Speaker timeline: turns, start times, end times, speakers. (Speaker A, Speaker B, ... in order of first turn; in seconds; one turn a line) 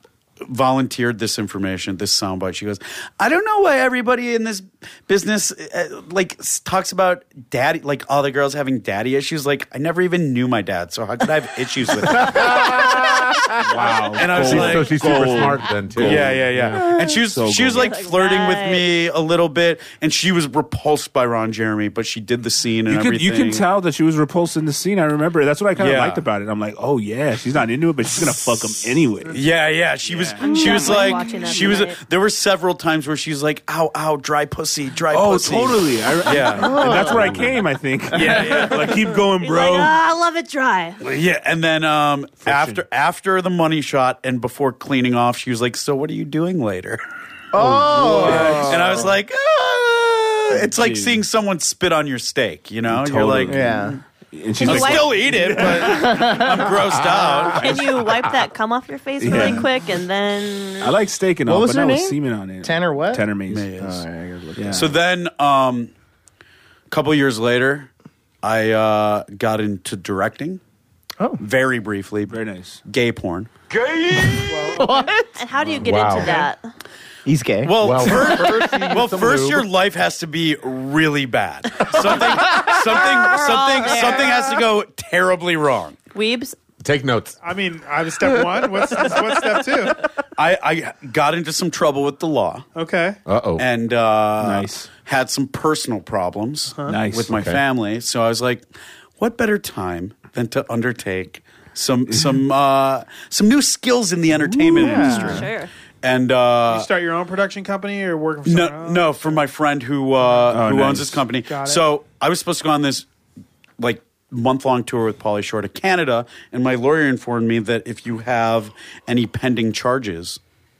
Speaker A: 0.4-12.9
Speaker B: 12.1-16.8
Speaker C: 13.6-17.9
Speaker A: 13.9-23.6
Speaker D: 17.7-18.9
Speaker C: 22.9-29.4
Speaker A: 25.8-26.2
Speaker A: 29.3-37.6
Speaker C: 30.0-30.4
Speaker D: 30.4-32.0
Speaker E: 30.5-31.4
Speaker C: 35.1-40.0
Speaker E: 36.6-37.4
Speaker A: 38.1-39.1
Speaker D: 39.4-41.0
Speaker A: 41.0-47.0
Speaker C: 42.4-42.8
Speaker E: 47.5-49.0
Speaker C: 47.6-49.1
Speaker A: 47.9-53.9
Speaker C: 50.5-51.2
Speaker C: 52.9-56.7
Speaker E: 53.5-54.0
Speaker A: 54.6-57.8
Speaker D: 54.6-55.1
Speaker E: 55.8-56.6
Speaker D: 57.5-60.9
Speaker C: 57.6-58.0
Speaker C: 59.2-59.7
Speaker C: 60.8-63.7
Speaker E: 61.5-63.2
Speaker A: 63.5-64.0
Speaker E: 63.8-64.9
Speaker C: 64.6-64.9
Speaker A: 64.7-65.9
Speaker A: 66.9-67.9
Speaker A: 68.4-70.6
Speaker A: 71.4-74.4
Speaker C: 72.3-72.8
Speaker E: 74.6-75.2
Speaker D: 75.3-76.7
Speaker B: 75.8-76.5
Speaker E: 77.2-78.1
Speaker A: 77.6-86.0
Speaker B: 77.8-79.7
Speaker D: 83.1-84.6
Speaker D: 86.1-86.5
Speaker B: 86.8-87.4
Speaker F: 87.4-90.0
Speaker A: 90.3-92.7
Speaker F: 92.7-93.2
Speaker B: 93.2-93.7
Speaker A: 93.6-98.7
Speaker C: 94.4-94.9
Speaker F: 96.7-97.0
Speaker C: 96.9-97.3
Speaker B: 97.3-97.6
Speaker A: 99.2-106.9
Speaker C: 102.1-102.4
Speaker C: 104.4-105.1
Speaker E: 104.7-105.5
Speaker D: 104.9-105.7
Speaker F: 106.7-109.3
Speaker A: 108.5-113.0
Speaker C: 110.5-111.2
Speaker F: 111.5-111.8
Speaker A: 113.8-120.4